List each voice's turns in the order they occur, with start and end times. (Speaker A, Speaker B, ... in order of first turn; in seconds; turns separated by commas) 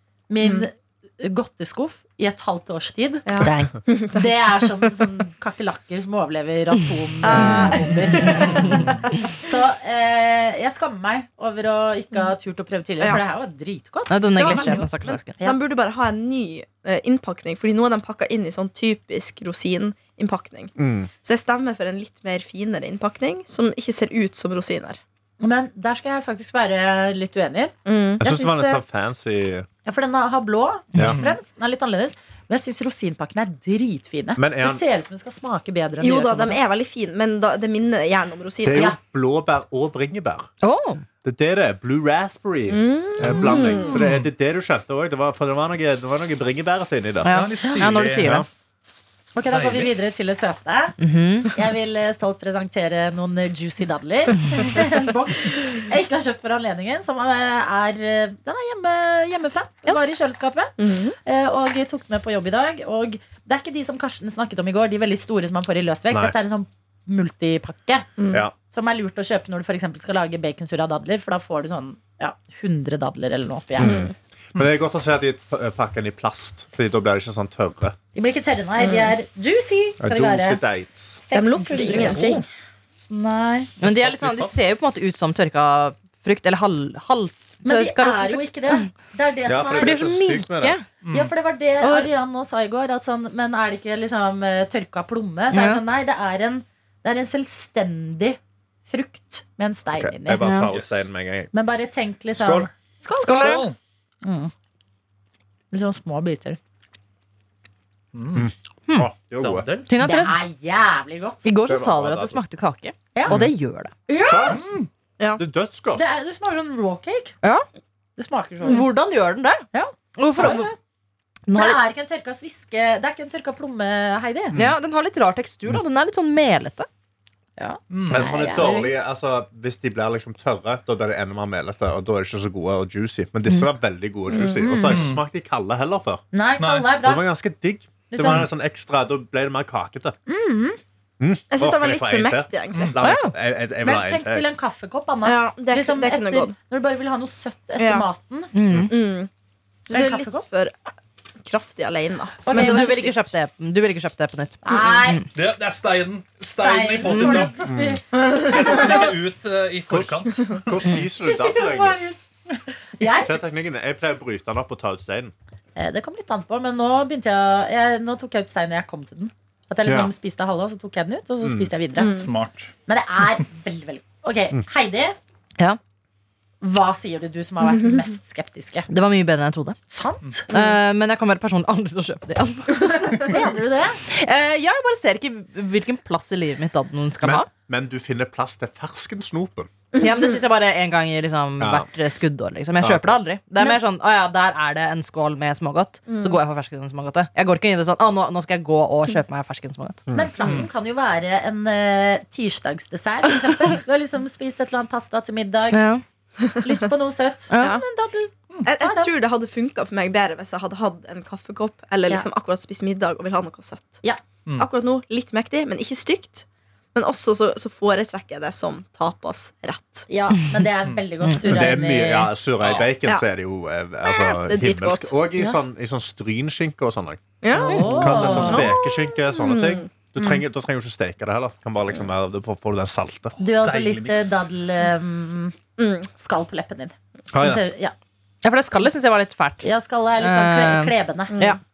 Speaker A: 0.3-14.8, Speaker B: 3.3-5.1, Speaker C: 3.4-3.7, Speaker B: 7.2-8.8, Speaker D: 8.6-8.9, Speaker C: 14.1-15.4, Speaker B: 14.3-25.0, Speaker E: 20.8-21.1, Speaker A: 25.4-27.7, Speaker B: 27.9-28.6, Speaker E: 28.2-29.7, Speaker A: 28.2-28.8, Speaker A: 29.8-36.6, Speaker D: 30.9-31.4, Speaker E: 34.4-34.8, Speaker B: 36.0-38.9, Speaker E: 38.6-40.5, Speaker C: 40.6-41.0, Speaker E: 41.2-47.3, Speaker B: 42.7-44.0, Speaker D: 43.5-44.3, Speaker C: 47.2-48.5, Speaker D: 47.2-48.4, Speaker E: 48.2-48.5, Speaker A: 49.4-51.0, Speaker D: 49.5-49.9, Speaker C: 51.0-51.5, Speaker A: 51.5-68.1, Speaker B: 60.8-61.1, Speaker E: 66.1-66.3, Speaker B: 68.2-68.5, Speaker A: 68.7-74.0, Speaker E: 73.8-78.0, Speaker B: 73.8-74.1, Speaker A: 78.1-80.6, Speaker B: 78.8-79.1, Speaker E: 80.0-81.2, Speaker A: 81.2-82.4, Speaker B: 81.3-82.4, Speaker D: 82.0-82.4, Speaker A: 83.1-83.7, Speaker C: 83.8-88.8, Speaker D: 83.8-84.5, Speaker E: 83.9-84.5, Speaker A: 87.6-90.1, Speaker E: 89.5-90.8, Speaker C: 89.7-90.8, Speaker D: 91.0-91.3, Speaker A: 91.1-100.5, Speaker C: 91.8-92.1, Speaker C: 95.5-95.8, Speaker E: 99.9-101.5, Speaker C: 100.4-100.7, Speaker D: 100.7-101.1, Speaker A: 101.5-103.6, Speaker E: 102.3-102.7, Speaker C: 103.2-103.7, Speaker D: 103.2-103.8, Speaker A: 104.2-104.5, Speaker A: 105.7-106.6, Speaker D: 108.1-108.5, Speaker E: 108.3-109.7, Speaker D: 109.4-110.0, Speaker C: 109.9-110.4, Speaker A: 110.0-111.5, Speaker C: 111.4-113.9, Speaker E: 111.6-112.4, Speaker A: 114.1-114.6, Speaker E: 114.2-114.7, Speaker D: 114.4-114.9, Speaker E: 115.4-116.0, Speaker A: 115.9-117.3, Speaker A: 118.2-118.9, Speaker C: 118.6-119.6, Speaker A: 119.7-120.7, Speaker C: 120.2-120.7, Speaker C: 121.5-121.8, Speaker A: 121.5-124.5, Speaker C: 124.5-126.9, Speaker A: 127.6-128.9, Speaker D: 127.9-128.4, Speaker E: 128.1-136.2, Speaker B: 134.3-134.7, Speaker A: 134.6-135.0, Speaker D: 134.8-135.2, Speaker A: 136.3-137.2, Speaker D: 136.6-137.0, Speaker E: 137.0-140.2, Speaker A: 138.1-138.5, Speaker A: 140.3-140.8, Speaker E: 141.2-144.5, Speaker B: 141.5-143.0, Speaker D: 142.7-143.0, Speaker C: 143.0-143.3, Speaker A: 143.8-148.5, Speaker B: 145.2-146.5, Speaker B: 147.8-148.1, Speaker C: 148.5-148.9, Speaker B: 148.9-149.3, Speaker A: 149.9-150.4, Speaker B: 149.9-150.8, Speaker B: 151.4-153.3, Speaker A: 152.4-153.1, Speaker C: 152.5-155.2, Speaker A: 154.6-155.3, Speaker D: 155.3-157.7, Speaker A: 156.6-159.1, Speaker E: 157.6-158.0, Speaker B: 158.2-158.7, Speaker D: 158.4-160.7, Speaker E: 159.9-162.0, Speaker A: 161.2-163.4, Speaker E: 163.2-165.3, Speaker A: 165.8-172.3, Speaker E: 169.8-170.1, Speaker E: 171.4-171.7, Speaker B: 172.0-172.3, Speaker D: 172.1-172.7, Speaker A: 172.9-175.2, Speaker A: 176.6-178.9, Speaker C: 178.9-179.8, Speaker A: 179.9-180.4, Speaker B: 180.5-180.8, Speaker C: 180.5-183.4, Speaker A: 183.0-184.0, Speaker C: 184.0-187.5, Speaker E: 187.2-189.7, Speaker B: 189.9-190.4, Speaker C: 190.0-200.0, Speaker E: 191.6-191.9, Speaker E: 192.8-193.2, Speaker B: 196.1-196.4, Speaker E: 200.1-200.6, Speaker A: 200.1-205.8, Speaker C: 205.7-206.0, Speaker A: 206.6-209.1, Speaker C: 207.5-207.8, Speaker B: 207.6-207.8, Speaker B: 208.6-214.0, Speaker B: 214.6-220.1, Speaker A: 220.1-222.3, Speaker E: 221.4-227.2, Speaker D: 222.6-222.9, Speaker B: 224.0-225.1, Speaker B: 227.4-229.9, Speaker A: 227.5-228.7, Speaker E: 227.8-233.4, Speaker D: 227.8-228.4, Speaker A: 233.4-235.6, Speaker D: 233.5-234.4, Speaker B: 235.8-236.1, Speaker A: 236.1-237.9, Speaker E: 237.3-237.6, Speaker C: 238.4-241.6, Speaker A: 239.6-241.5, Speaker B: 241.3-241.6